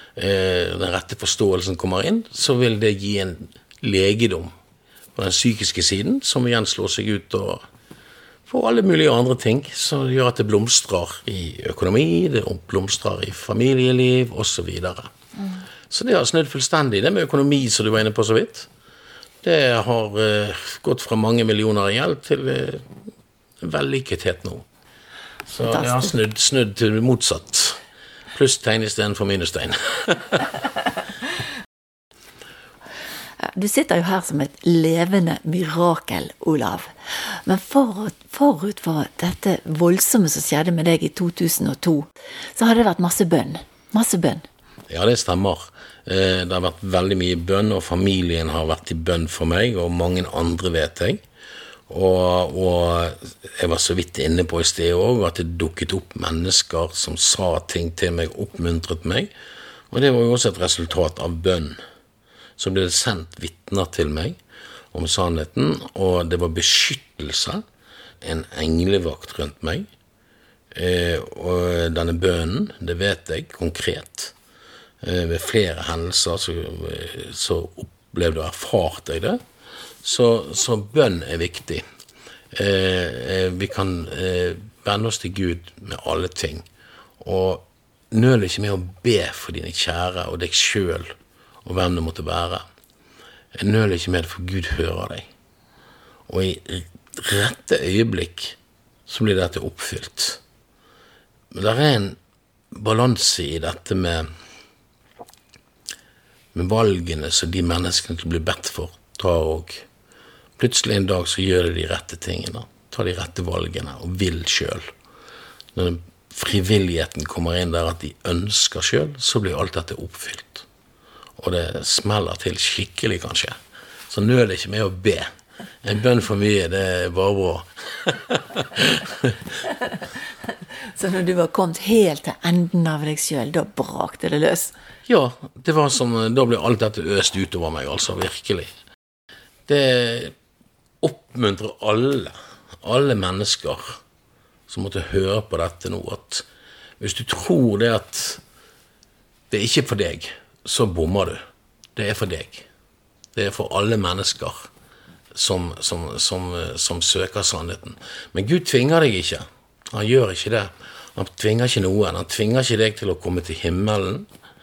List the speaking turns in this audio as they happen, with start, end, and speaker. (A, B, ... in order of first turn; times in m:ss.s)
0:00.2-0:04.5 A
0:05.2-0:07.6 A
0:08.5-0:15.1 A
0:15.9-0:18.7 A
0:19.4-0:22.8 A
0:23.6-0:24.6 A
0:25.5-0:27.8 A
0:25.7-0:26.1 B
0:28.3-0:30.5 A
0:33.4-0:44.4 B
0:44.9-0:51.2 A
0:51.9-0:59.3 A
0:59.9-1:01.8 A
1:02.6-1:04.4 A
1:04.9-1:07.6 A
1:08.2-1:09.8 A
1:10.8-1:14.3 A
1:15.0-1:19.4 A
1:20.0-1:21.8 A
1:22.5-1:26.7 A
1:27.2-1:31.1 A
1:31.6-1:32.6 A
1:33.6-1:35.3 A
1:36.3-1:40.4 A
1:41.5-1:42.2 A
1:42.7-1:44.2 A
1:46.5-1:49.8 A
1:50.6-1:54.8 A
1:55.7-2:00.6 A
2:01.4-2:03.5 A
2:04.1-2:05.3 A
2:05.8-2:09.1 A
2:11.0-2:14.7 B
2:15.1-2:18.7 A
2:19.7-2:20.3 A
2:21.0-2:24.0 A
2:24.7-2:26.5 A
2:27.0-2:28.4 A
2:29.5-2:31.4 A
2:32.0-2:32.7 A
2:33.3-2:34.7 A
2:35.3-2:44.3 A